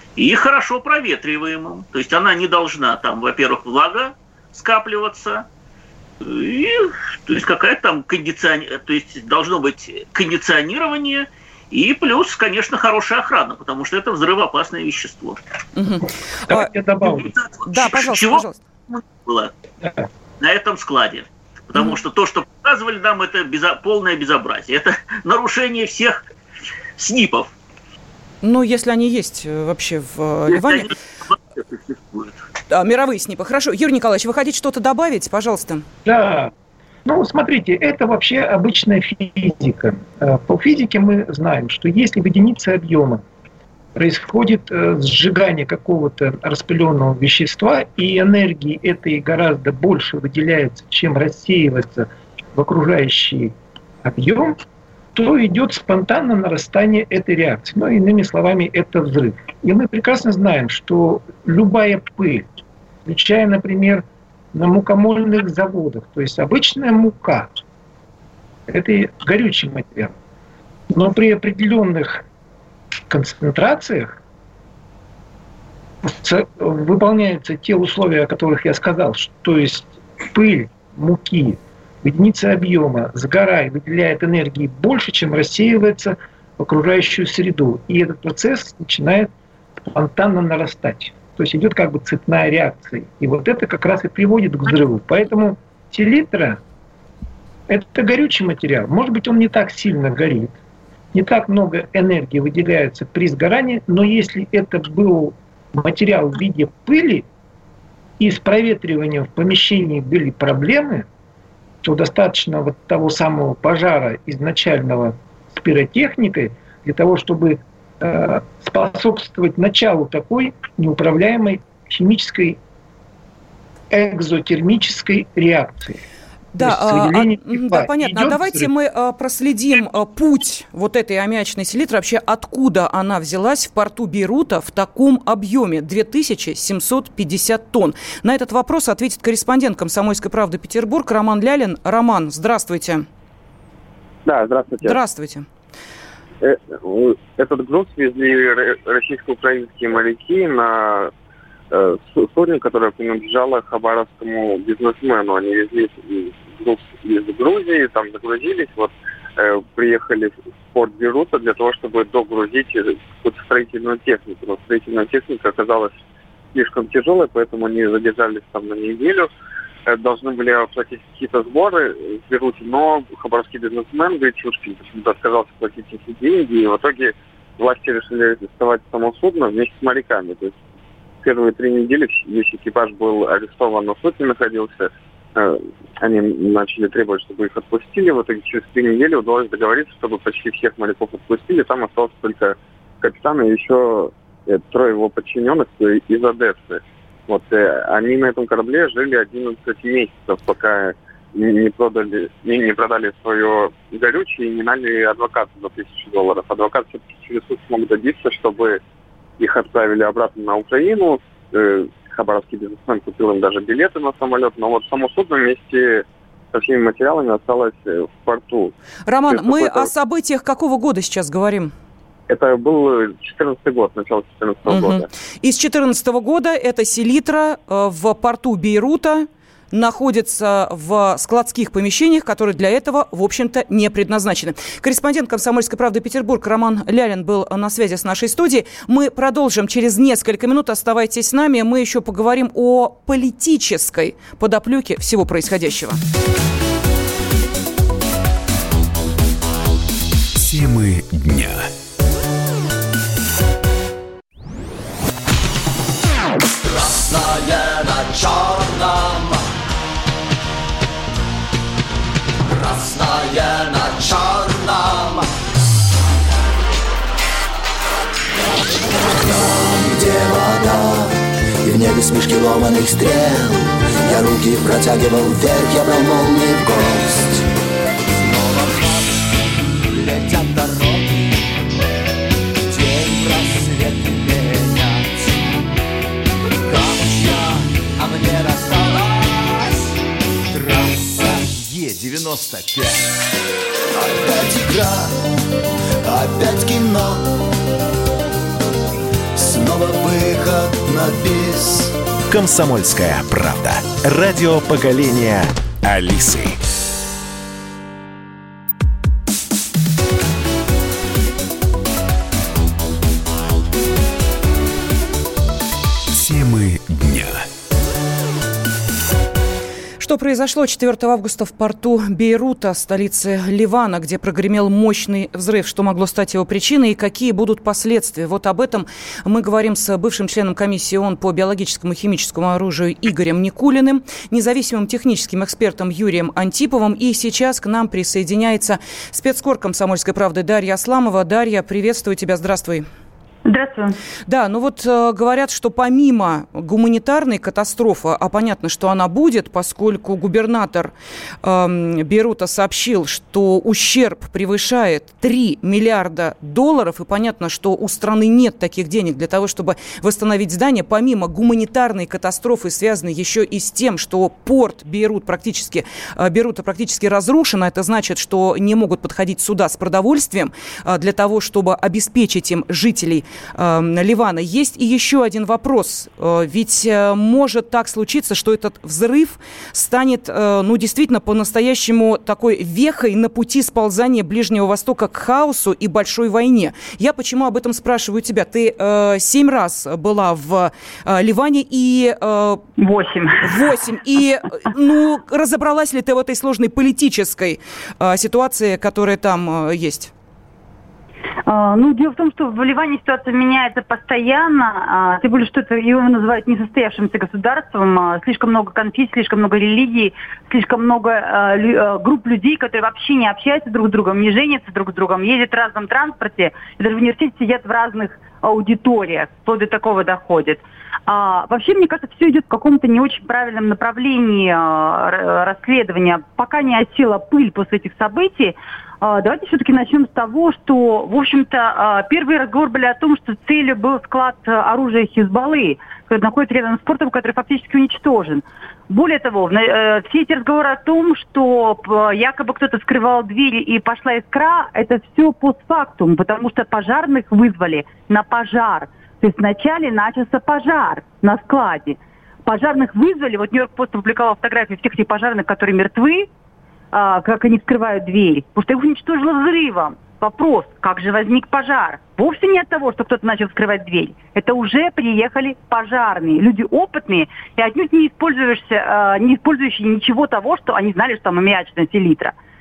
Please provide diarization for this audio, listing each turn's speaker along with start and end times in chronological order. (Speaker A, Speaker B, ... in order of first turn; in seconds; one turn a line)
Speaker A: 0.2-5.5
Speaker A: 6.2-15.4
Speaker B: 15.8-16.7
Speaker C: 16.5-17.3
Speaker A: 17.1-19.5
Speaker B: 17.7-18.6
Speaker A: 20.4-26.2
Speaker A: 27.0-27.5
Speaker B: 28.4-30.9
Speaker A: 30.5-32.4
Speaker B: 32.7-35.9
Speaker C: 36.0-36.5
Speaker C: 37.0-43.2
Speaker C: 44.0-54.6
Speaker C: 55.1-62.5
Speaker C: 63.0-67.5
Speaker C: 68.7-70.1
Speaker C: 70.9-72.2
Speaker C: 73.1-74.2
Speaker C: 76.0-89.3
Speaker C: 89.8-96.6
Speaker C: 97.7-100.5
Speaker C: 101.1-107.3
Speaker C: 108.2-111.1
Speaker C: 111.8-122.6
Speaker C: 123.9-126.0
Speaker B: 126.5-143.1
Speaker C: 126.6-128.7
Speaker D: 144.3-145.0
Speaker B: 144.8-145.5
Speaker D: 146.4-151.1
Speaker D: 151.7-166.0
Speaker D: 166.5-169.3
Speaker D: 169.9-180.6
Speaker D: 181.2-208.8
Speaker D: 209.4-218.7
Speaker B: 219.1-221.7
Speaker D: 219.3-219.9
Speaker D: 222.3-225.1
Speaker B: 224.7-246.0
Speaker E: 250.4-251.7
Speaker F: 256.7-259.4
Speaker F: 262.5-265.3
Speaker F: 269.0-277.5
Speaker F: 278.2-281.4
Speaker F: 282.6-285.5
Speaker F: 286.6-289.9
Speaker F: 290.5-293.1
Speaker F: 293.9-295.2
Speaker F: 296.1-297.4
Speaker F: 299.4-301.9
Speaker E: 302.3-306.6
Speaker E: 316.1-317.5
Speaker B: 320.0-342.9
Speaker G: 343.5-344.0
Speaker B: 344.3-392.6
Speaker G: 392.8-393.6
Speaker B: 393.4-400.1
Speaker G: 401.5-456.3
Speaker G: 456.9-472.3